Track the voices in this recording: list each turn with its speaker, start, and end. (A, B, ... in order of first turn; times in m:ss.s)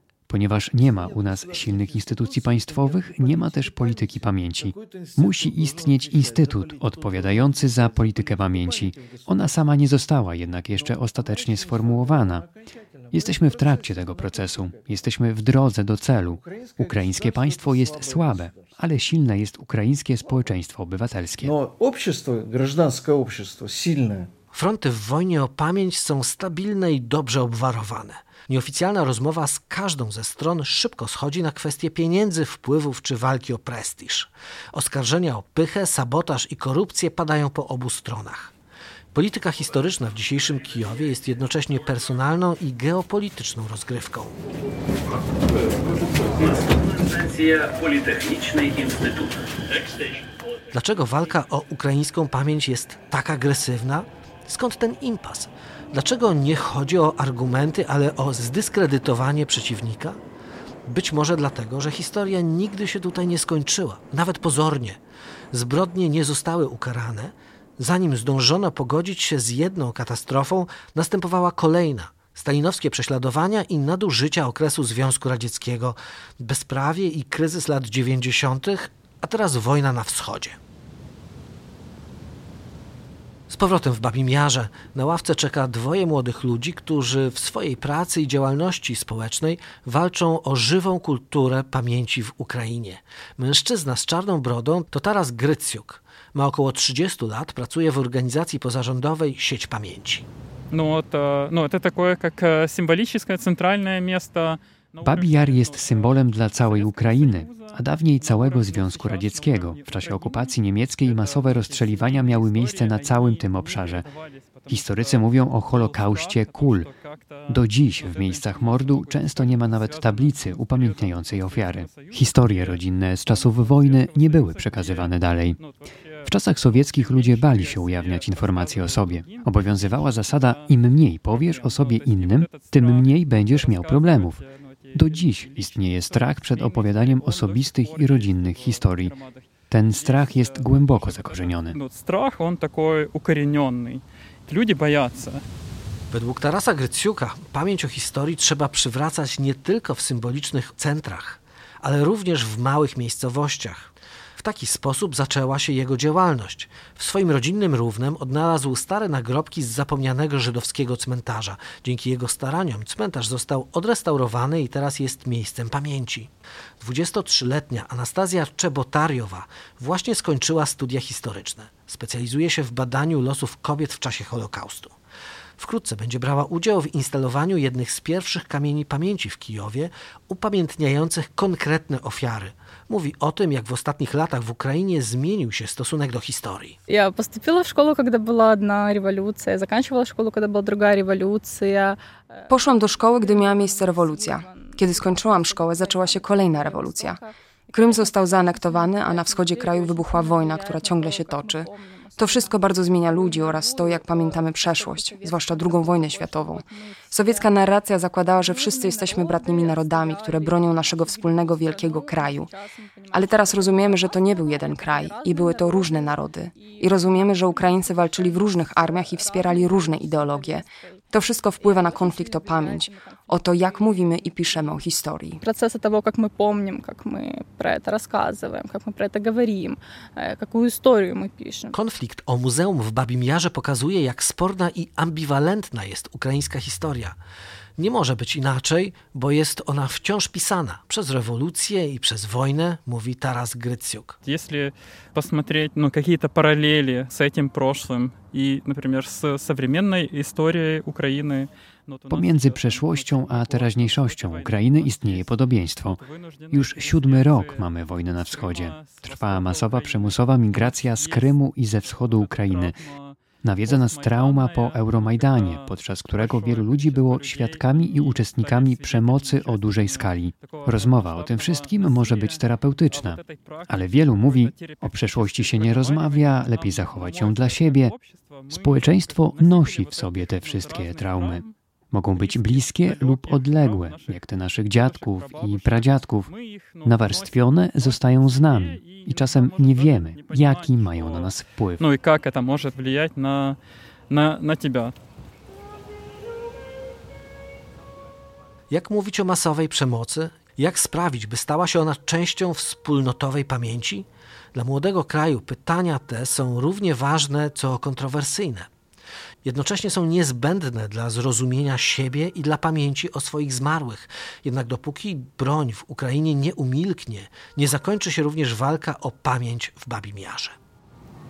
0:00.3-0:12.5 A
0:00.7-0:09.6 B
0:10.7-0:14.9 B
0:13.1-0:21.5 A
0:16.2-0:18.8 B
0:21.4-0:24.3 B
0:24.5-0:38.5 C
0:39.1-0:44.4 C
0:48.1-0:49.1 C
0:50.7-1:00.2 C
1:00.8-1:05.0 C
1:05.5-1:20.6 C
1:23.5-1:40.3 C
1:40.7-2:25.4 D
1:45.0-1:54.1 A
1:54.7-1:56.9 A
1:57.5-2:05.6 A
2:06.2-2:14.4 A
2:14.9-2:19.1 A
2:19.7-2:21.8 A
2:26.1-2:55.0 C
2:55.6-3:06.8 C
3:06.9-3:27.8 E
3:12.5-3:17.2 F
3:17.7-3:32.5 F
3:28.3-3:51.7 E
3:33.1-3:45.4 F
3:51.7-3:57.2 C
3:57.8-4:04.2 C
4:04.2-4:41.5 D
4:12.1-4:22.8 A
4:23.4-4:37.9 A
4:38.5-4:46.3 A
4:42.1-4:53.6 D
4:46.8-4:51.8 A
4:54.1-4:54.9 D
4:58.7-5:08.7 C
5:09.4-5:20.6 C